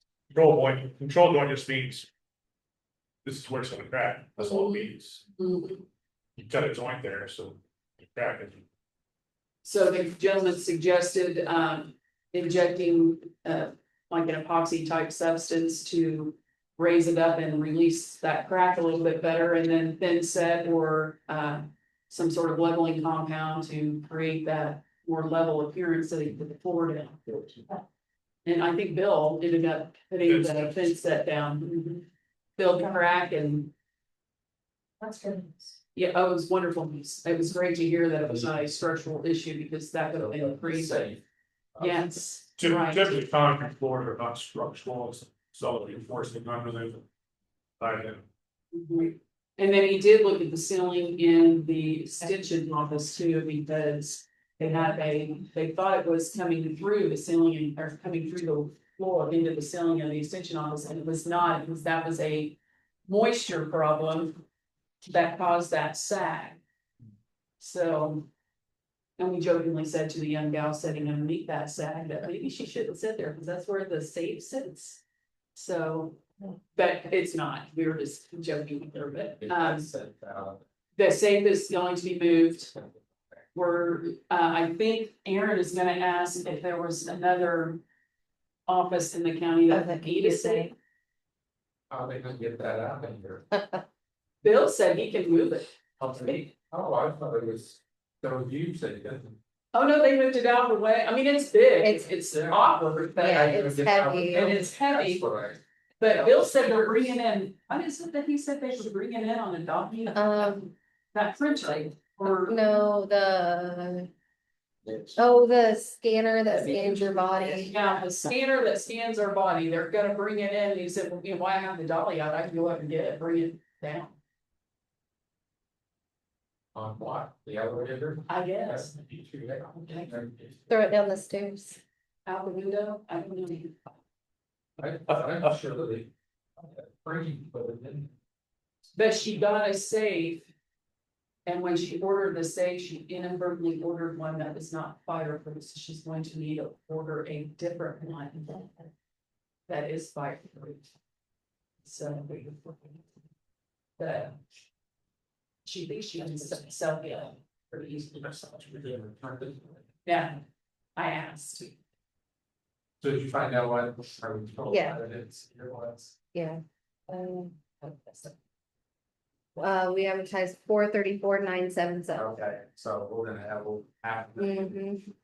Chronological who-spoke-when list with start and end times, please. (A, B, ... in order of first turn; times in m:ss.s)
0:00.3-0:02.1 A
0:03.2-0:05.2 A
0:05.4-0:05.8 B
0:06.4-0:08.6 A
0:09.6-0:27.2 B
0:28.4-0:33.7 B
0:30.2-0:30.7 A
0:35.0-0:35.7 C
0:35.9-0:41.1 B
0:40.1-0:41.2 D
0:41.7-0:42.0 D
0:41.8-0:43.1 B
0:42.6-0:47.0 A
0:47.8-0:48.2 A
0:48.7-1:04.4 B
1:05.0-1:06.6 B
1:07.6-1:08.3 B
1:09.2-1:15.0 B
1:15.5-1:19.9 B
1:19.4-1:20.6 D
1:21.0-1:22.7 B
1:23.5-1:27.8 B
1:28.7-1:30.7 B
1:29.7-1:30.7 C
1:31.9-1:33.4 D
1:33.5-1:33.8 C
1:34.4-1:35.7 B
1:36.0-1:39.4 D
1:39.7-1:43.5 B
1:41.8-1:42.1 C
1:42.3-1:42.6 D
1:43.2-1:44.6 C
1:43.2-1:45.6 D
1:44.3-1:45.3 B
1:46.0-1:50.6 B
1:50.1-1:50.7 C
1:51.1-1:52.6 B
1:52.4-1:54.1 C
1:55.1-1:58.0 C
1:56.5-2:04.2 B
2:06.7-2:10.6 D
2:08.3-2:08.9 B
2:09.9-2:10.1 B
2:10.7-2:11.8 C
2:12.2-2:13.9 B
2:14.8-2:18.1 D
2:19.0-2:20.5 B
2:21.4-2:28.8 B
2:29.7-2:30.9 B
2:31.8-2:33.0 B
2:34.0-2:34.4 B
2:35.6-2:38.9 B
2:38.7-2:39.8 D
2:40.0-2:40.4 B
2:41.0-2:41.8 B
2:43.0-2:46.1 D
2:44.7-2:45.0 C
2:46.3-2:47.7 C
2:47.8-2:48.3 B
2:49.6-2:52.2 C
2:52.1-2:54.7 D
2:54.4-2:55.1 C